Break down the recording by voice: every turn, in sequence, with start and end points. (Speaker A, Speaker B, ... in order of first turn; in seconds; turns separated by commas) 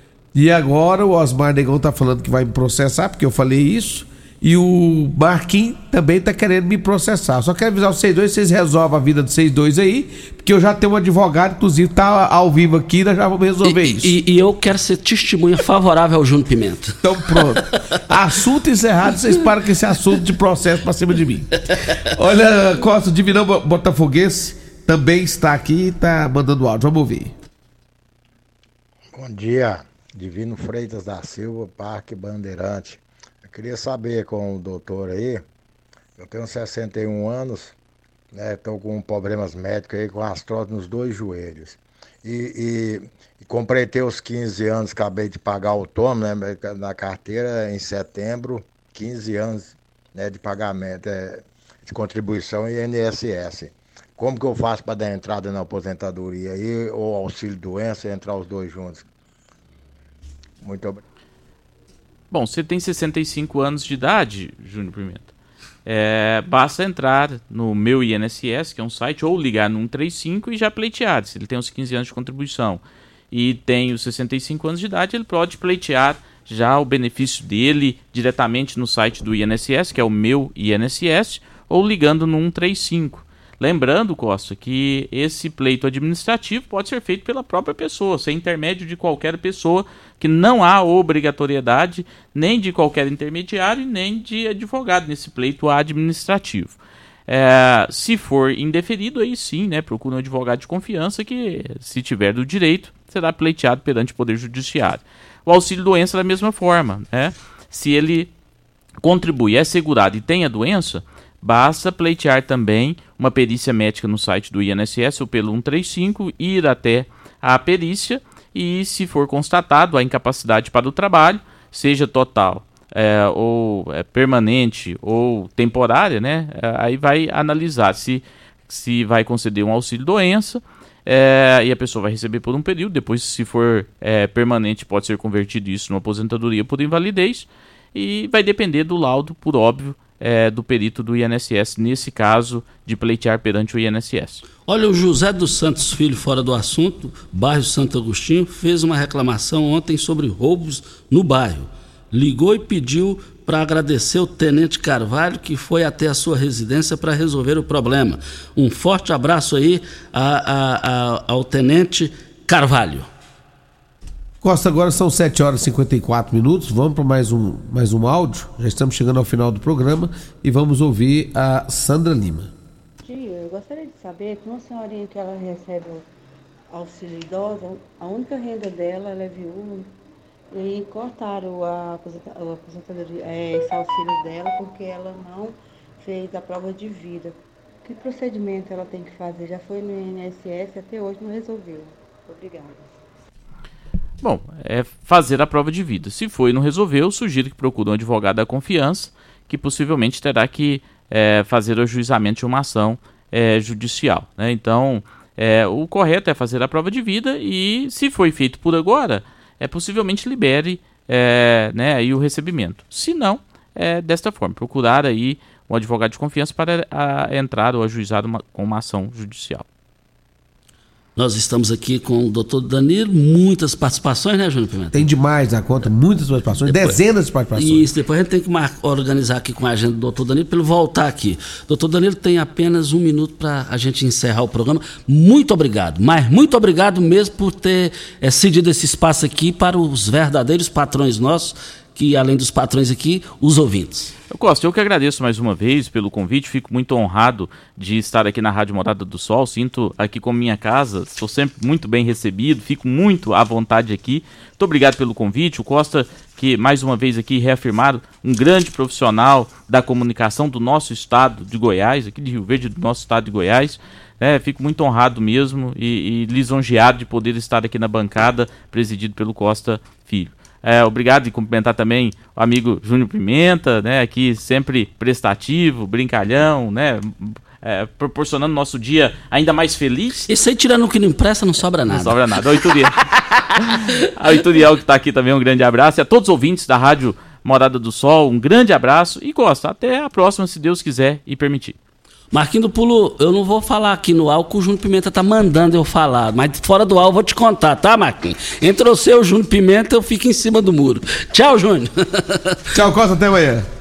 Speaker A: 0.3-14.1, Speaker B: 13.7-17.6, Speaker A: 17.0-27.3, Speaker C: 29.1-35.4, Speaker C: 36.2-37.7, Speaker C: 38.3-59.0, Speaker C: 60.6-61.0, Speaker D: 62.3-65.3, Speaker D: 65.8-108.3, Speaker D: 109.0-144.4, Speaker B: 144.7-163.1, Speaker A: 164.4-172.5, Speaker E: 173.0-176.1, Speaker E: 176.7-179.9, Speaker E: 180.5-192.8, Speaker D: 194.2-219.7, Speaker B: 221.2-225.1, Speaker A: 224.9-227.9, Speaker B: 227.5-244.1, Speaker D: 244.3-280.3, Speaker B: 280.3-282.2, Speaker D: 281.9-283.0, Speaker B: 283.2-283.8, Speaker D: 283.6-291.8, Speaker B: 292.3-302.6, Speaker A: 302.7-303.6